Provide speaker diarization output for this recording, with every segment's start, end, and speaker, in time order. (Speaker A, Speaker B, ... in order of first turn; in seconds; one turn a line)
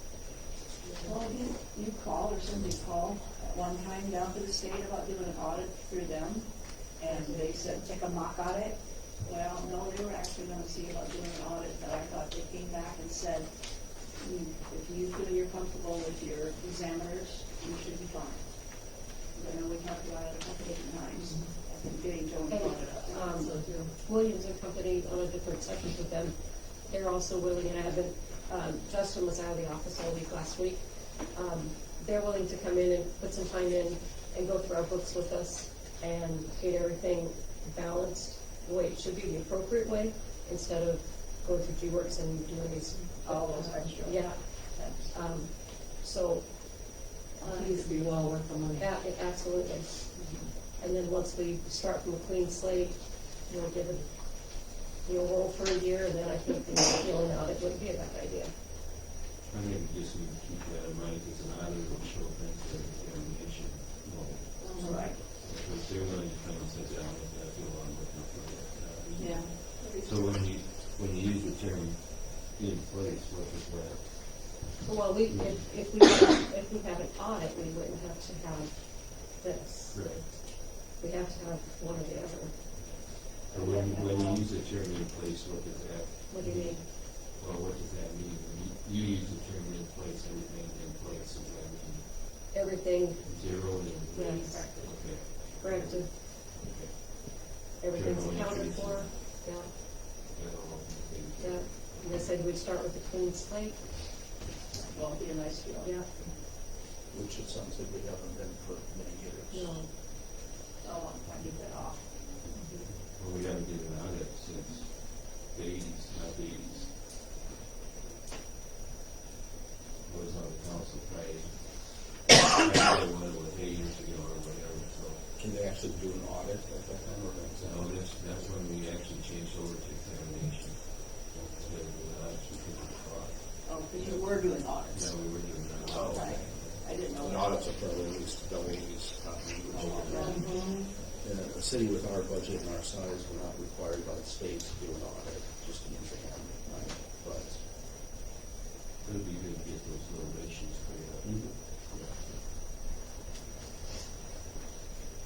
Speaker A: 0.8-1.3
Speaker B: 1.0-23.3
Speaker A: 7.1-7.5
Speaker A: 22.5-48.1
Speaker C: 23.1-23.9
Speaker B: 43.2-45.1
Speaker C: 47.4-48.9
Speaker A: 48.8-58.5
Speaker D: 59.5-74.7
Speaker B: 64.6-65.3
Speaker B: 69.2-70.3
Speaker A: 74.8-82.6
Speaker D: 75.3-75.6
Speaker D: 79.9-80.3
Speaker D: 82.8-92.1
Speaker B: 83.6-84.4
Speaker A: 86.3-86.8
Speaker A: 92.5-93.4
Speaker D: 93.2-99.2
Speaker A: 94.1-94.7
Speaker B: 94.4-94.9
Speaker A: 95.6-96.2
Speaker A: 97.8-99.7
Speaker D: 100.2-102.3
Speaker A: 101.4-103.9
Speaker B: 104.7-106.0
Speaker A: 105.8-106.1
Speaker E: 107.1-109.8
Speaker A: 109.5-109.9
Speaker B: 110.8-112.0
Speaker D: 113.1-117.0
Speaker D: 120.0-125.2
Speaker E: 125.4-128.0
Speaker D: 127.6-136.8
Speaker B: 133.6-135.2
Speaker B: 135.8-137.5
Speaker E: 135.9-136.2
Speaker E: 137.1-147.7
Speaker B: 139.7-140.9
Speaker D: 149.0-152.4
Speaker E: 151.2-151.6